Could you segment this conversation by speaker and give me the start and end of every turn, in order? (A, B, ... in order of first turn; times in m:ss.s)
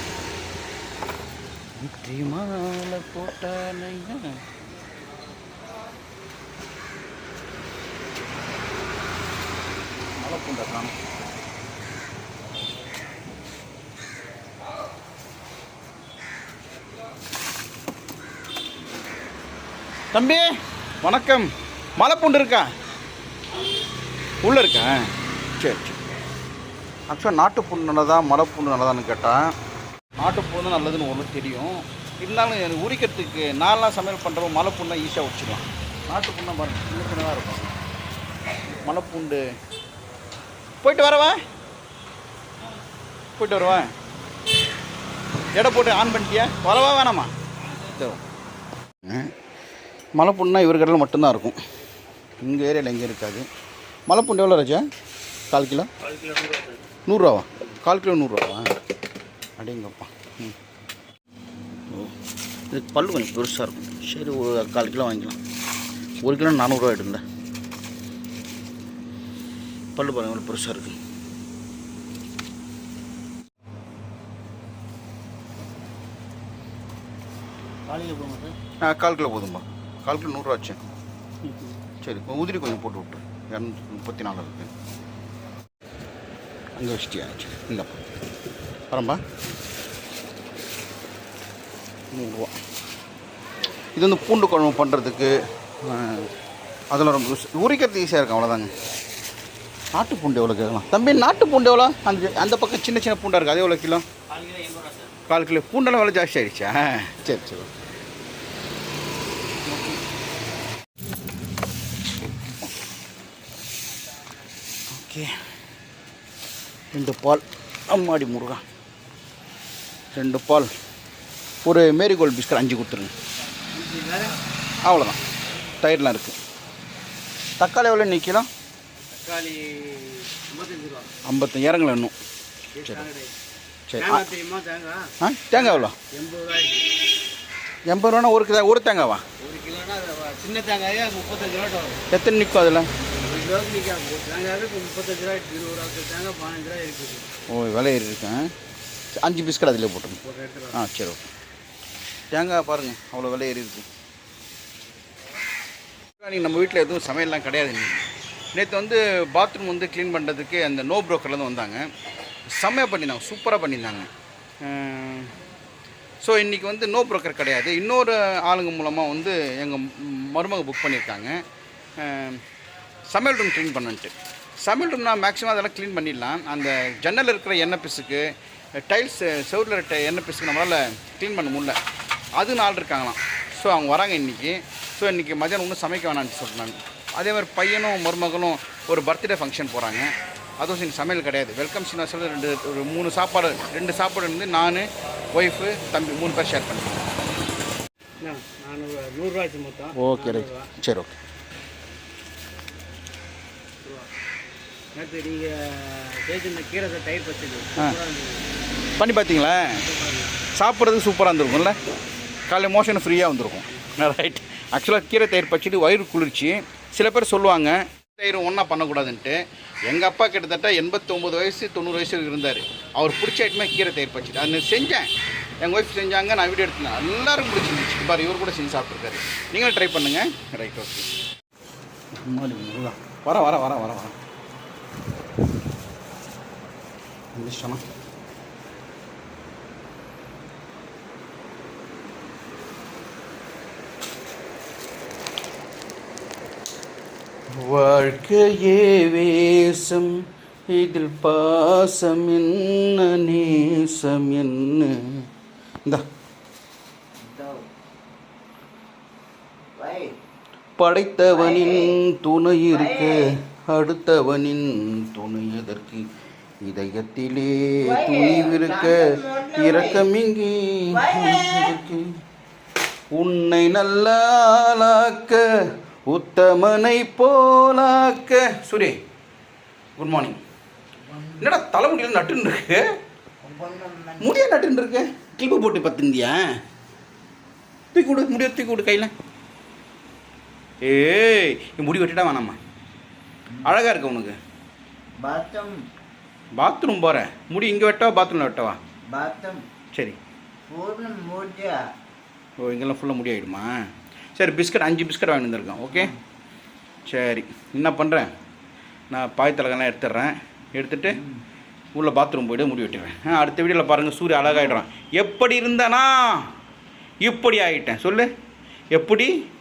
0:01.8-0:04.4 A
0:10.2-0:10.9 A
0:20.1-0:20.5 A
0:21.0-0:22.7 A
0:24.4-0:26.0 A
0:27.1-0:29.5 A
0:30.2-0:37.8 A
0:38.8-0:39.4 A
0:40.8-0:41.4 A
0:43.4-0:43.9 A
0:45.5-0:47.3 A
0:47.8-0:48.2 A
0:49.0-0:49.3 A
0:50.2-0:51.6 A
0:52.4-0:53.5 A
0:54.1-0:54.8 A
0:55.5-0:55.9 A
0:56.3-0:56.7 B
0:57.1-0:58.7 A
0:59.6-1:00.6 A
1:01.9-1:02.2 A
1:02.7-1:05.4 A
1:06.2-1:07.2 A
1:09.9-1:11.0 A
1:17.9-1:18.5 B
1:18.8-1:20.8 A
1:22.0-1:24.7 A
1:26.8-1:28.0 A
1:28.9-1:29.2 A
1:32.1-1:32.5 A
1:33.9-1:36.3 A
1:36.9-1:38.7 A
1:39.9-1:44.0 A
1:44.4-1:45.0 B
1:45.3-1:47.7 A
1:49.6-1:50.0 A
1:54.9-1:55.4 A
1:56.9-1:58.6 A
2:00.1-2:00.7 A
2:01.6-2:03.1 A
2:03.7-2:04.4 B
2:04.8-2:05.2 A
2:05.8-2:06.4 A
2:07.6-2:08.5 A
2:09.1-2:11.1 B
2:11.2-2:12.1 A
2:12.7-2:13.3 B
2:13.9-2:14.3 A
2:14.0-2:16.9 B
2:15.2-2:16.0 A
2:17.8-2:19.2 A
2:19.4-2:22.0 B
2:22.1-2:22.9 A
2:23.1-2:27.3 B
2:27.5-2:28.5 A
2:29.2-2:30.2 A
2:30.2-2:30.8 B
2:30.7-2:31.2 A
2:32.3-2:33.9 A
2:36.2-2:41.9 A
2:42.5-2:44.1 A
2:44.6-2:45.4 A
2:46.2-2:51.4 A
2:52.0-2:52.4 A
2:53.1-2:58.3 A
2:58.8-3:01.8 A
3:02.3-3:17.1 A
3:18.2-3:20.7 B
3:19.9-3:21.1 A
3:23.8-3:24.1 B
3:24.9-3:28.4 B
3:29.0-3:29.8 A
3:29.8-3:30.3 B
3:30.5-3:31.8 A
3:32.5-3:45.1 A
3:45.6-3:51.1 A
3:52.1-3:54.2 A
3:57.3-3:57.8 A
4:07.5-4:10.1 A
4:10.7-4:15.3 A
4:17.2-4:17.6 C
4:19.8-4:20.1 C
4:20.8-4:26.1 A
4:21.3-4:21.9 C
4:22.7-4:23.3 C
4:26.6-4:32.2 A
4:27.8-4:30.0 C
4:30.9-4:31.8 C
4:33.1-4:35.5 A
4:36.1-4:39.0 A
4:40.0-4:40.4 A
4:41.0-4:41.6 C
4:41.4-4:42.8 A
4:43.4-4:44.3 C
4:44.2-4:46.6 A
4:47.9-4:49.1 A
4:50.8-4:52.6 A
4:53.6-4:54.4 A
4:55.2-4:55.8 C
4:56.5-4:58.8 A
4:59.1-4:59.6 C
5:00.7-5:01.8 C
5:02.6-5:03.7 A
5:04.4-5:06.1 A
5:07.0-5:08.3 A
5:09.1-5:11.2 A
5:11.9-5:16.5 A
5:17.2-5:18.3 A
5:18.9-5:19.3 A